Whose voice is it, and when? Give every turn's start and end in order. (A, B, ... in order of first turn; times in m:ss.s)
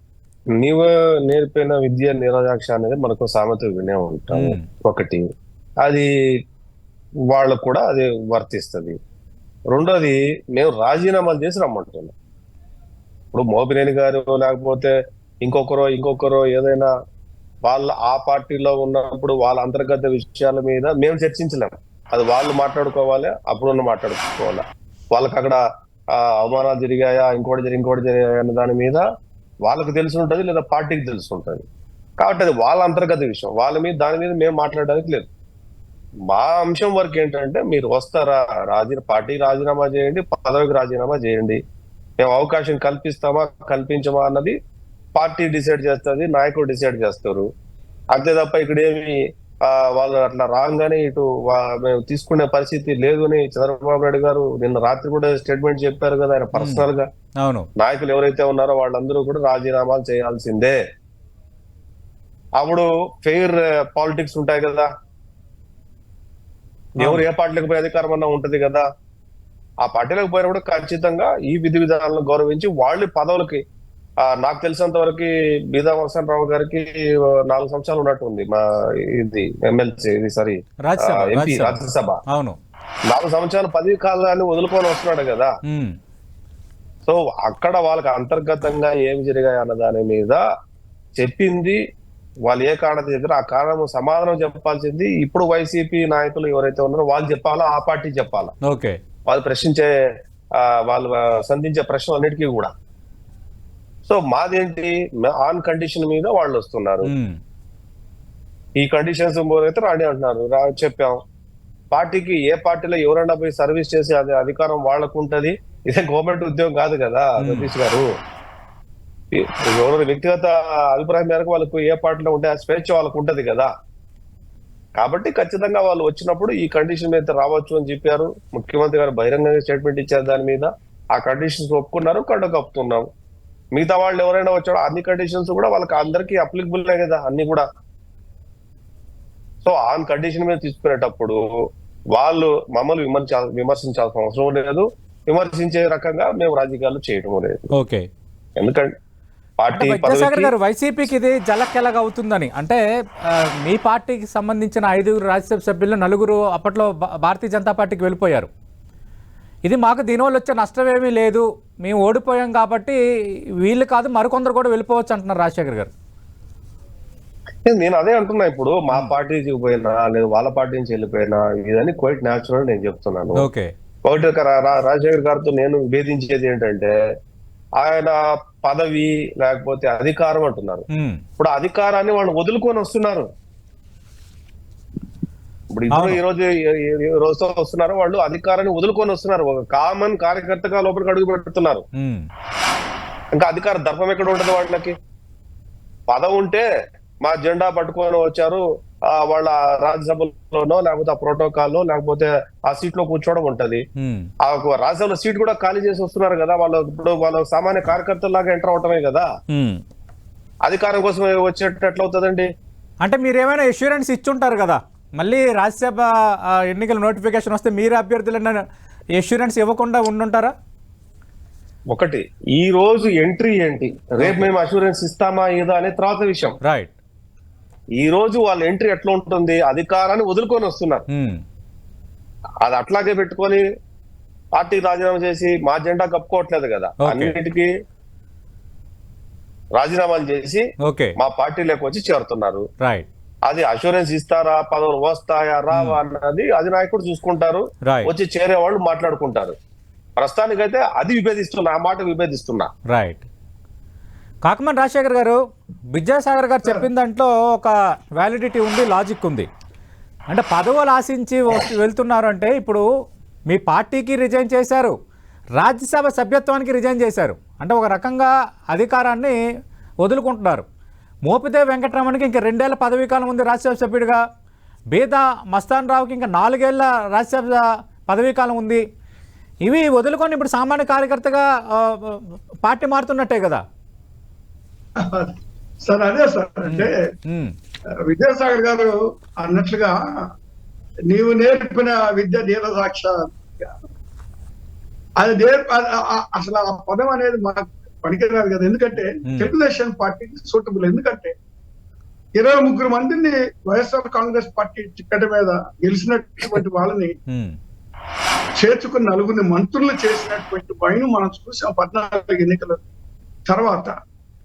0:00.6-0:05.2 A
0:04.3-0:04.7 B
0:05.8-0:06.1 A
0:07.3-0:09.0 A
0:09.7-0:12.1 A
0:13.3-0:16.9 A
0:17.6-0:25.6 A
0:26.1-0:29.0 A
0:29.6-0:31.6 A
0:32.2-0:35.3 A
0:36.3-0:41.6 A
0:42.2-0:44.6 A
0:45.2-0:47.5 A
0:48.1-0:57.1 A
0:56.6-0:56.9 B
0:57.4-0:57.7 B
0:57.8-1:00.8 A
1:02.6-1:04.9 A
1:07.0-1:08.9 A
1:09.8-1:13.6 A
1:14.2-1:22.2 A
1:20.9-1:22.6 B
1:23.1-1:25.5 A
1:25.7-1:26.0 B
1:27.1-1:30.4 A
1:31.2-1:31.8 A
1:32.4-1:38.5 A
1:38.6-1:39.0 B
1:39.3-1:39.9 A
1:40.6-1:42.7 A
1:44.1-1:47.1 A
1:47.0-1:47.4 B
1:48.8-1:51.2 A
1:51.9-1:58.1 A
1:57.4-1:57.7 B
1:59.3-2:03.7 A
2:05.0-2:13.1 A
2:13.7-2:17.7 A
2:19.6-2:21.4 A
2:22.1-2:27.7 A
2:27.7-2:28.1 B
2:28.6-2:28.9 A
2:29.6-2:30.5 A
2:29.7-2:38.5 B
2:39.6-2:43.0 B
2:43.6-2:45.9 B
2:47.6-2:53.4 A
2:53.4-2:53.7 B
2:54.1-2:56.9 A
2:57.8-3:00.8 A
3:00.9-3:01.2 B
3:01.4-3:03.3 A
3:05.7-3:11.8 A
3:05.9-3:06.2 B
3:12.0-3:12.3 B
3:13.3-3:14.9 A
3:16.1-3:16.7 A
3:17.2-3:23.8 A
3:24.0-3:24.3 B
3:24.4-3:29.3 A
3:29.5-3:29.8 B
3:30.6-3:32.5 A
3:33.0-3:38.6 B
3:39.2-3:40.5 B
3:41.9-3:46.6 A
3:44.2-3:44.5 B
3:46.6-3:46.9 B
3:48.0-3:51.1 A
3:51.1-3:51.4 B
3:52.6-3:53.6 A
3:54.6-3:57.7 A
3:57.0-3:57.3 B
3:59.8-4:00.7 A
4:00.8-4:01.2 B
4:01.2-4:02.7 A
4:02.8-4:03.1 B
4:03.5-4:09.6 A
4:05.7-4:06.0 B
4:10.2-4:12.7 A
4:12.9-4:13.2 B
4:14.4-4:15.4 B
4:15.9-4:19.5 B
4:20.3-4:22.8 B
4:23.5-4:24.9 B
4:25.6-4:29.4 B
4:30.0-4:30.6 B
4:31.3-4:34.2 B
4:34.9-4:38.8 B
4:39.6-4:43.6 B
4:45.0-4:47.0 C
4:46.7-4:47.5 B
4:48.1-4:50.3 C
4:51.1-4:53.8 C
4:55.2-5:01.3 C
4:59.2-4:59.5 B
5:02.4-5:07.1 C
5:07.3-5:07.6 B
5:08.6-5:12.8 C
5:13.5-5:13.9 C